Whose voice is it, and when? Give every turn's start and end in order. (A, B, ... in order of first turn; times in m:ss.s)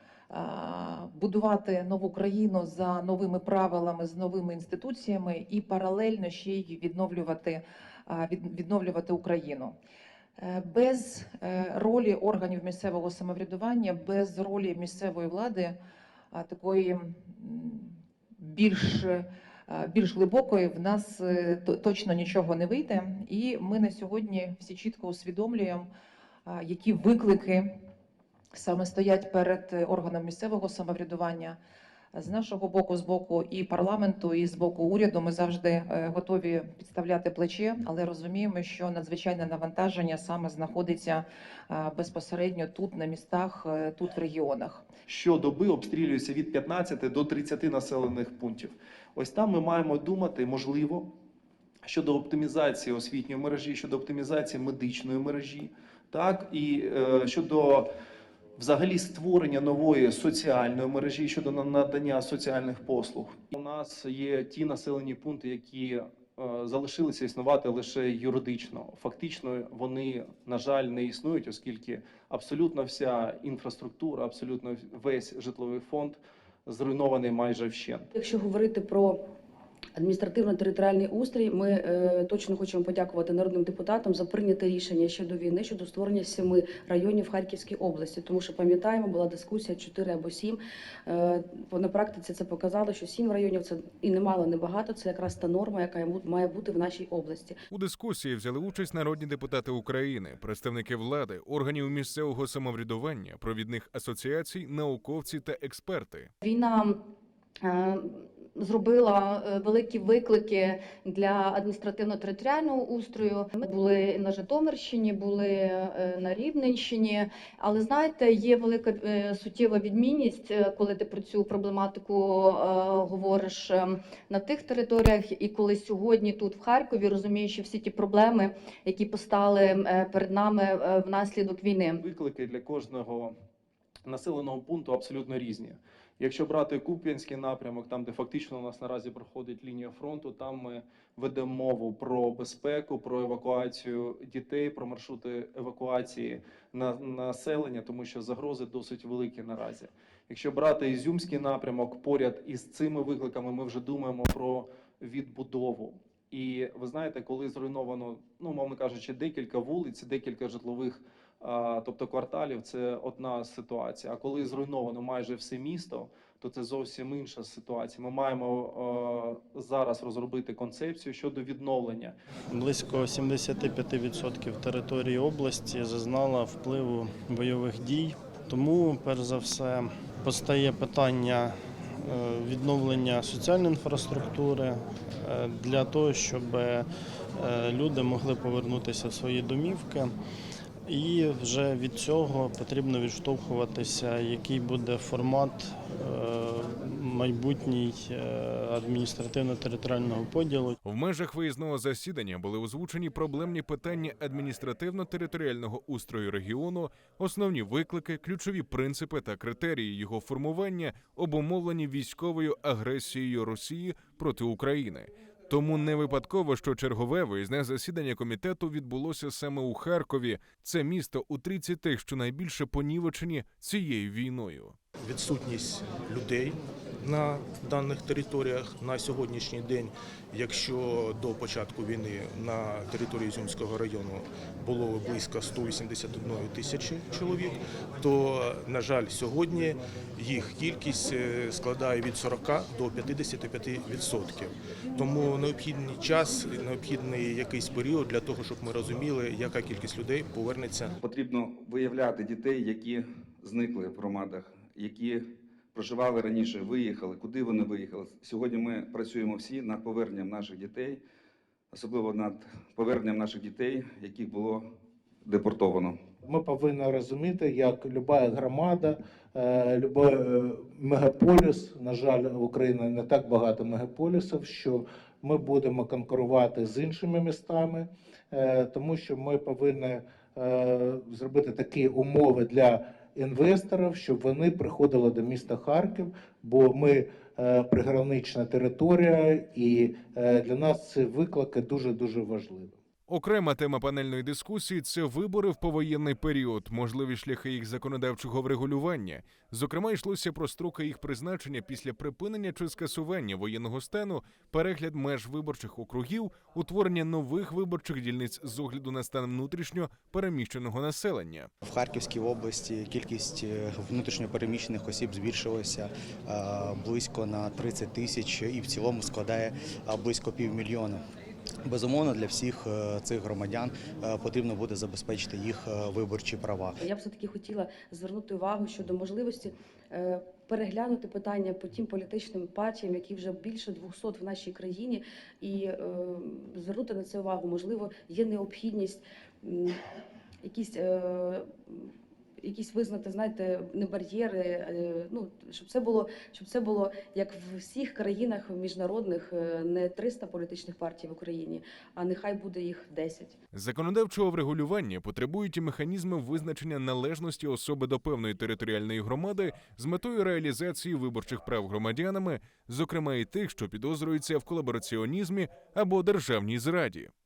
0:00.3-0:09.8 A
0:10.4-0:15.8 A
0:16.3-0:25.9 A
0:26.5-0:27.7 A
0:28.5-0:31.6 A
0:32.1-0:44.9 A
0:45.1-0:51.1 B
0:51.8-0:57.9 B
0:58.6-1:18.1 B
1:18.2-1:19.2 C
1:20.0-1:37.6 C
1:37.7-1:46.3 D
1:46.4-1:47.0 E
1:47.6-2:12.0 E
2:12.0-2:13.3 B
2:14.1-2:52.2 B
2:52.5-3:10.1 F
3:10.9-3:20.8 F
3:20.8-3:44.8 D
3:45.0-4:11.0 G
4:11.0-4:21.0 H
4:21.7-4:24.7 H
4:25.2-4:26.0 H
4:26.2-4:52.8 I
4:53.1-5:11.5 D
5:11.6-5:21.0 J
5:21.6-5:26.8 J
5:26.8-5:39.8 C
5:40.4-5:53.4 C
5:53.5-6:07.1 D